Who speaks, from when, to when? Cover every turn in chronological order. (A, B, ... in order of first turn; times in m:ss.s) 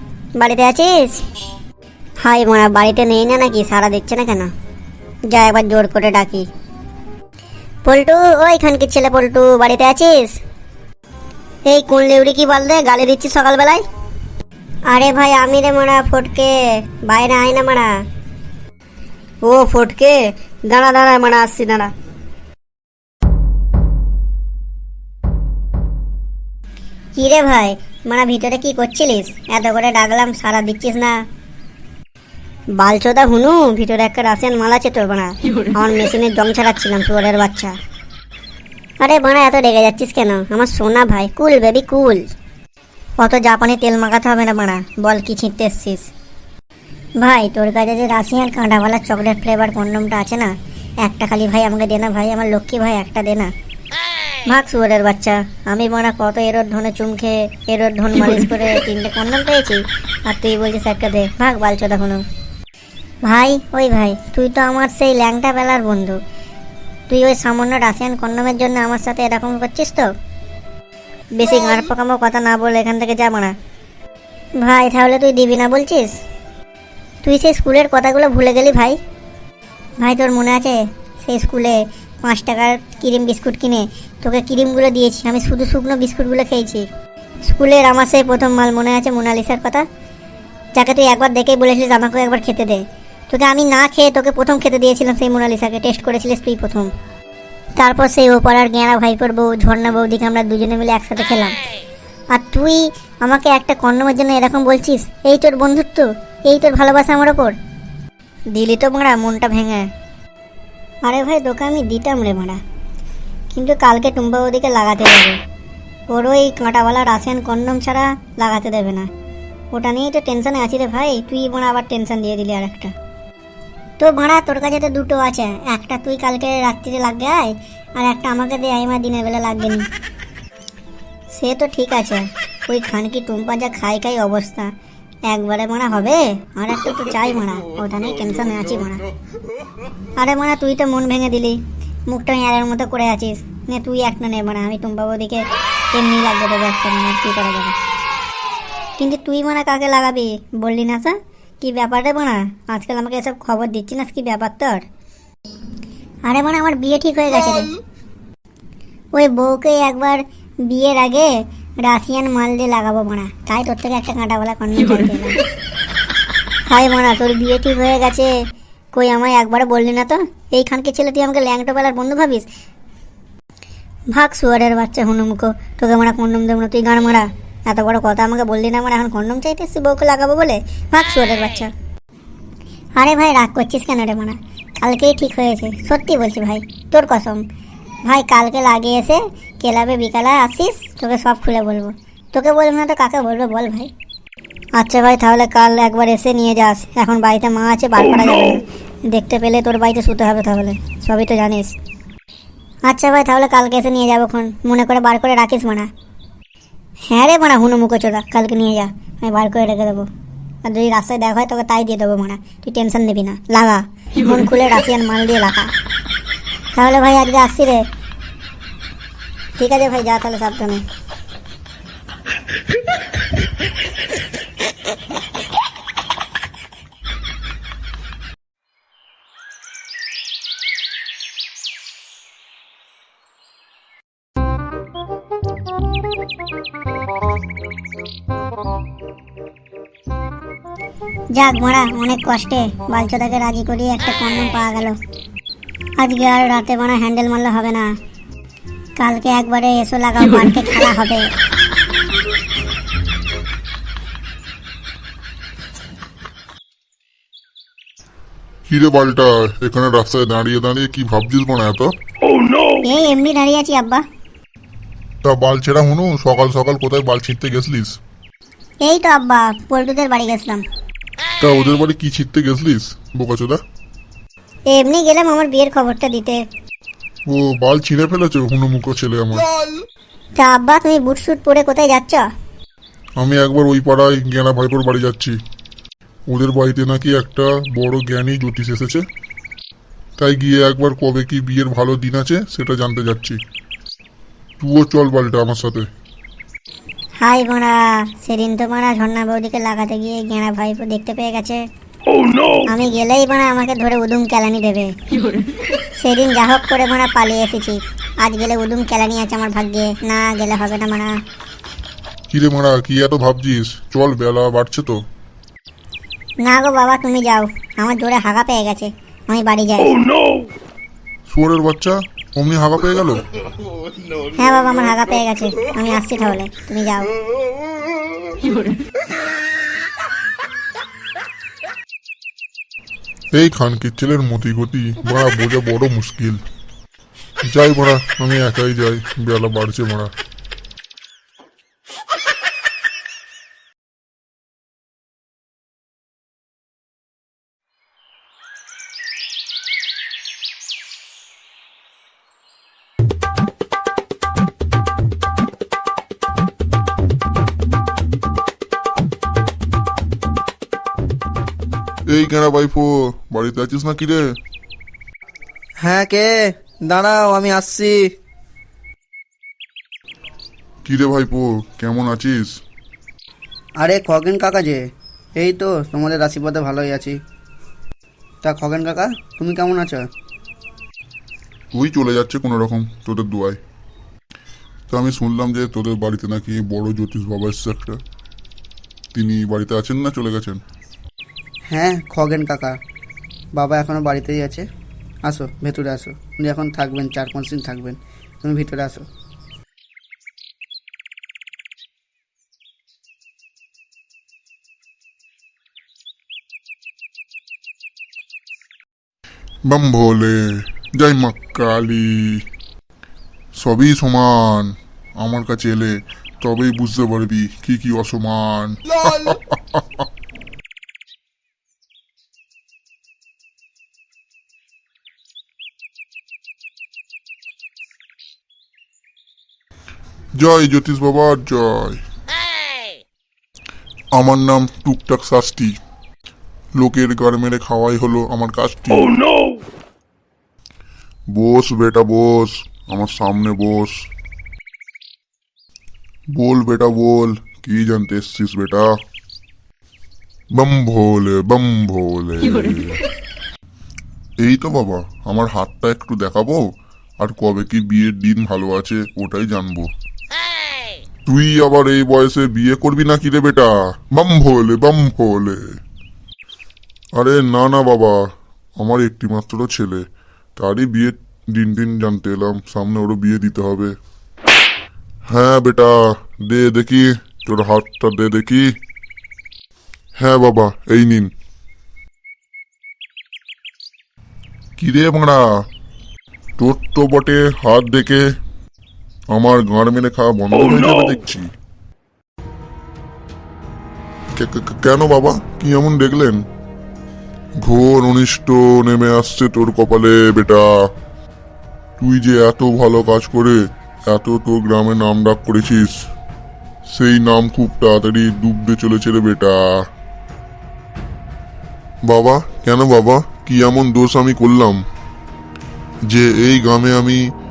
0:00.4-0:01.2 A
0:02.2-0:04.5 A
0:05.3-0:06.5 A
0:07.8-0:10.4 A
0:11.7-0:13.8 A
0:14.9-0:18.0 A
0:19.4-0:21.9 A
0:27.2-0:31.2 A
0:32.8-0:37.8 A
0:39.0-0:42.2 A
0:43.2-0:46.1 A
0:47.2-0:53.5 A
0:54.5-1:02.2 A
1:03.3-1:06.2 A
1:07.1-1:10.1 A
1:11.4-1:13.5 A
1:14.6-1:16.2 A
1:17.2-1:19.0 A
1:20.0-1:26.9 A
1:27.4-1:29.8 A
1:30.8-1:36.9 A
1:37.8-1:41.6 A
1:42.3-1:47.6 A
1:48.5-1:49.9 A
1:51.0-1:52.6 A
1:53.5-1:55.4 A
1:56.1-1:59.1 A
1:59.7-2:02.9 A
2:04.0-2:09.9 A
2:11.3-2:14.7 A
2:15.3-2:19.0 A
2:20.2-2:27.8 A
2:29.0-2:34.8 A
2:36.3-2:37.7 A
2:39.2-2:45.4 A
2:46.7-2:48.4 A
2:48.9-2:52.5 A
2:54.1-3:01.7 A
3:03.0-3:07.4 A
3:08.1-3:13.9 A
3:14.8-3:21.7 A
3:22.9-3:25.9 A
3:27.1-3:30.1 A
3:30.6-3:35.7 A
3:36.8-3:37.8 A
3:39.6-3:40.8 A
4:01.4-4:05.0 A
4:06.0-4:07.9 A
4:09.0-4:11.3 A
4:18.7-4:21.9 B
4:22.8-4:24.0 A
4:25.2-4:28.0 B
4:28.8-4:30.6 A
4:31.4-4:33.6 B
4:34.7-4:36.4 A
4:37.3-4:39.5 B
4:40.4-4:42.3 A
4:43.2-4:45.4 B
4:46.3-4:49.1 B
4:50.2-4:53.4 B
4:54.6-4:55.9 B
4:57.2-5:01.6 A
5:02.7-5:05.0 A
5:06.0-5:11.2 A
5:12.3-5:15.0 B
5:16.4-5:20.0 A
5:21.3-5:23.2 B
5:24.3-5:27.1 A
5:33.3-5:36.4 B
5:37.4-5:40.1 B
6:02.1-6:04.2 B
6:05.8-6:08.1 C
6:10.8-6:12.6 B
6:13.8-6:17.2 C
6:18.4-6:20.1 C
6:21.7-6:23.6 B
6:24.9-6:28.0 B
6:29.1-6:30.6 B
6:31.7-6:32.8 C
6:33.6-6:34.7 C
6:35.3-6:39.1 C
6:49.7-6:52.4 B
6:53.6-7:00.0 B
7:10.4-7:12.0 B
7:14.1-7:15.8 B
7:16.8-7:19.2 B
7:21.3-7:23.9 B
7:26.3-7:28.9 B
7:30.5-7:33.0 B
7:34.4-7:36.7 B
7:37.2-7:39.9 B
7:41.3-7:45.6 B
7:47.2-7:48.2 B
7:48.8-7:50.0 B
7:50.6-7:53.9 B
7:55.3-7:58.7 B
8:00.2-8:01.3 B
8:04.8-8:05.4 B
8:06.6-8:08.2 B
8:09.3-8:11.5 B
8:14.4-8:16.4 B
8:17.6-8:20.7 B
8:22.0-8:26.0 B
8:26.9-8:29.6 B
8:32.1-8:34.8 B
8:36.1-8:37.2 B